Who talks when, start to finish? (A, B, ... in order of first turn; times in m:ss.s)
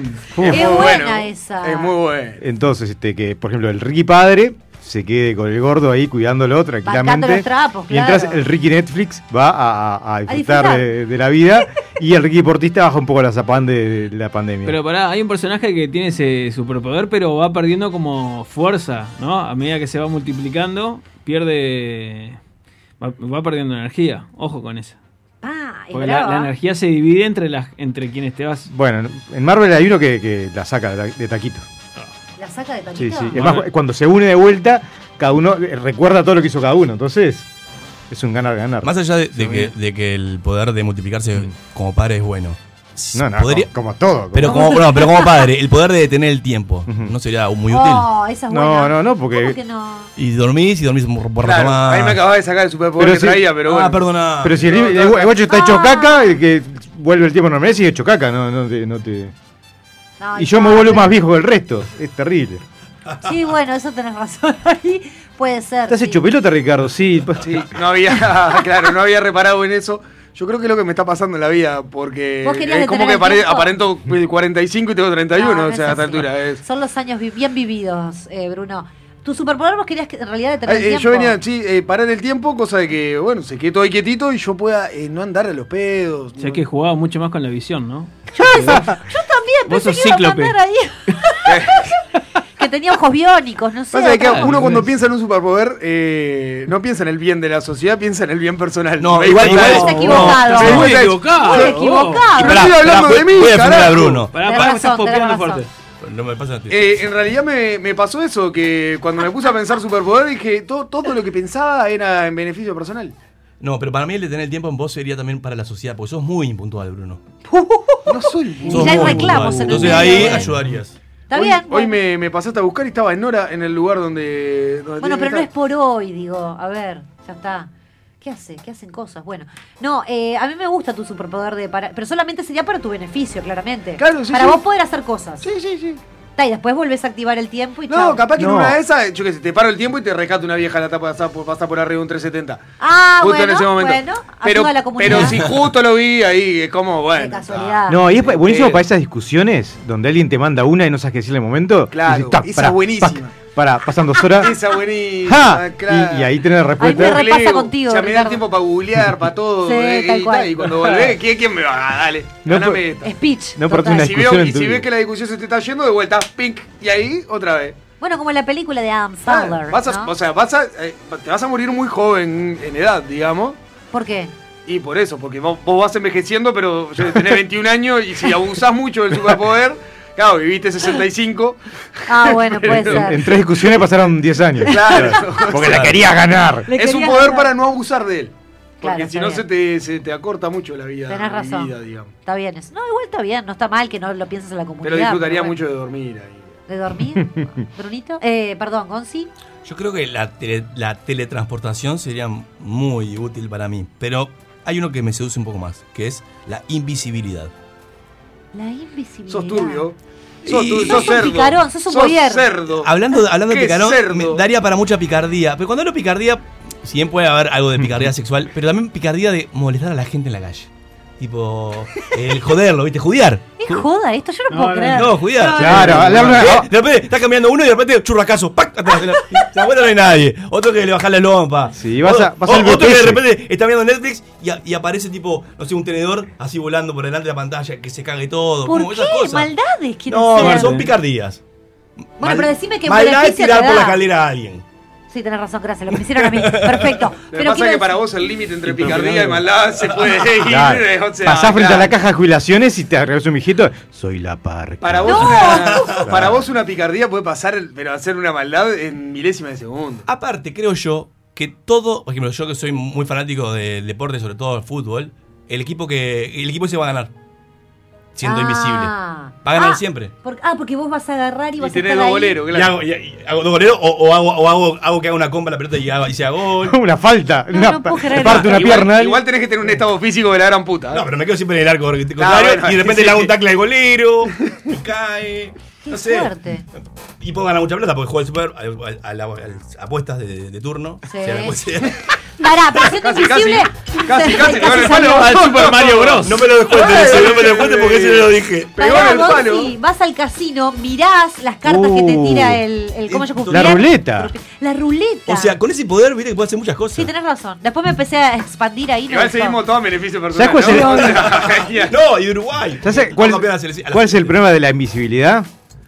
0:00.3-0:00.9 A
0:00.4-0:02.4 B
0:00.4-0:01.9 C
0:02.4-0:14.8 A
0:06.8-0:08.4 C
0:10.3-0:10.9 C
0:14.6-0:22.4 D
0:23.0-0:25.0 D
0:25.4-0:26.5 C
0:25.9-0:28.7 D
0:28.7-0:31.6 A
0:32.4-0:33.5 C
0:33.0-0:37.5 A
0:33.4-0:33.7 D
0:38.1-0:38.9 A
0:38.8-0:43.7 E
0:43.1-0:44.7 A
0:44.3-0:48.1 E
0:44.4-0:45.4 C
0:46.9-0:47.1 A
0:47.7-0:50.1 C
0:48.5-0:49.6 A
0:50.2-0:52.2 E
0:51.4-0:54.0 B
0:53.0-0:53.4 A
0:53.6-0:54.6 E
0:54.4-0:59.3 A
0:54.6-0:55.3 B
0:55.4-0:56.4 C
1:00.2-1:01.1 C
1:00.4-1:02.6 A
1:03.2-1:06.2 C
1:05.9-1:07.7 A
1:07.4-1:16.6 B
1:12.4-1:13.7 C
1:15.3-1:21.4 C
1:20.7-1:26.6 B
1:26.4-1:29.0 D
1:28.3-1:31.5 C
1:29.7-1:30.5 D
1:31.4-1:31.8 B
1:32.6-1:34.7 C
1:33.9-1:41.8 B
1:34.2-1:34.9 D
1:39.0-1:41.2 E
1:39.3-1:42.5 D
1:39.4-1:42.7 C
1:42.4-1:44.3 B
1:42.4-1:44.6 E
1:44.3-1:45.7 D
1:44.4-1:45.6 C
1:46.0-1:47.0 E
1:46.7-1:53.2 B
1:53.6-1:57.2 E
1:57.5-2:00.5 C
1:58.1-2:00.4 B
1:58.7-2:00.9 E
2:01.3-2:02.0 C
2:01.3-2:05.5 B
2:05.0-2:07.7 C
2:08.2-2:15.5 C
2:14.0-2:14.6 B
2:15.4-2:16.0 B
2:16.4-2:18.2 C
2:17.9-2:22.6 B
2:18.4-2:18.8 A
2:22.8-2:25.4 C
2:23.2-2:28.8 B
2:27.2-2:28.1 C
2:27.9-2:34.6 A
2:31.9-2:33.3 B
2:34.4-2:43.1 B
2:35.2-2:37.3 A
2:36.8-2:38.4 C
2:39.6-2:40.8 C
2:42.4-2:42.8 A
2:43.0-2:44.1 C
2:43.6-2:44.9 A
2:43.8-2:47.8 B
2:48.0-2:50.1 C
2:49.3-2:53.6 B
2:53.9-2:54.3 C
2:54.6-3:03.3 B
3:02.1-3:03.3 C
3:02.7-3:06.7 A
3:04.7-3:05.9 B
3:04.7-3:05.5 C
3:05.6-3:06.0 E
3:06.6-3:07.5 C
3:06.7-3:12.1 B
3:08.8-3:09.4 C
3:11.1-3:11.7 C
3:12.2-3:15.6 C
3:14.8-3:16.5 B
3:16.7-3:19.3 C
3:17.2-3:17.5 A
3:19.6-3:27.5 E
3:28.5-3:29.8 C
3:29.3-3:32.9 B
3:30.4-3:31.2 E
3:30.8-3:32.5 C
3:32.8-3:43.8 E
3:33.5-3:34.4 B
3:43.6-3:46.2 C
3:44.5-3:46.5 D
3:44.9-3:59.5 E
3:45.6-3:46.7 A
3:51.7-3:53.2 A
3:58.6-4:00.8 C
4:00.1-4:01.4 E
4:00.4-4:00.9 D
4:02.2-4:04.6 E
4:02.2-4:04.0 C
4:05.1-4:08.0 C
4:06.1-4:07.0 E
4:07.3-4:11.9 B
4:08.8-4:09.3 E
4:10.3-4:16.4 A
4:14.8-4:20.0 B
4:15.0-4:16.0 C
4:15.7-4:16.0 E
4:20.1-4:27.1 E
4:28.1-4:28.9 E
4:28.2-4:32.4 C
4:29.4-4:30.1 E
4:31.6-4:32.8 B
4:32.5-4:36.8 E
4:36.6-4:39.2 A
4:37.5-4:38.8 C
4:38.4-4:41.1 B
4:40.9-4:46.3 E
4:42.2-4:43.3 B
4:45.9-4:46.6 C
4:47.2-4:52.1 E
4:51.1-4:51.6 C
4:52.4-4:55.7 C
4:52.9-4:59.7 B
4:54.6-4:56.4 D
4:56.2-4:59.0 E
4:58.8-5:05.5 C
5:01.6-5:02.6 A
5:03.1-5:03.8 E
5:03.4-5:04.3 A
5:05.3-5:07.1 E
5:07.0-5:09.6 C
5:09.1-5:11.9 B
5:10.3-5:11.4 A
5:10.6-5:14.4 E
5:12.8-5:15.5 A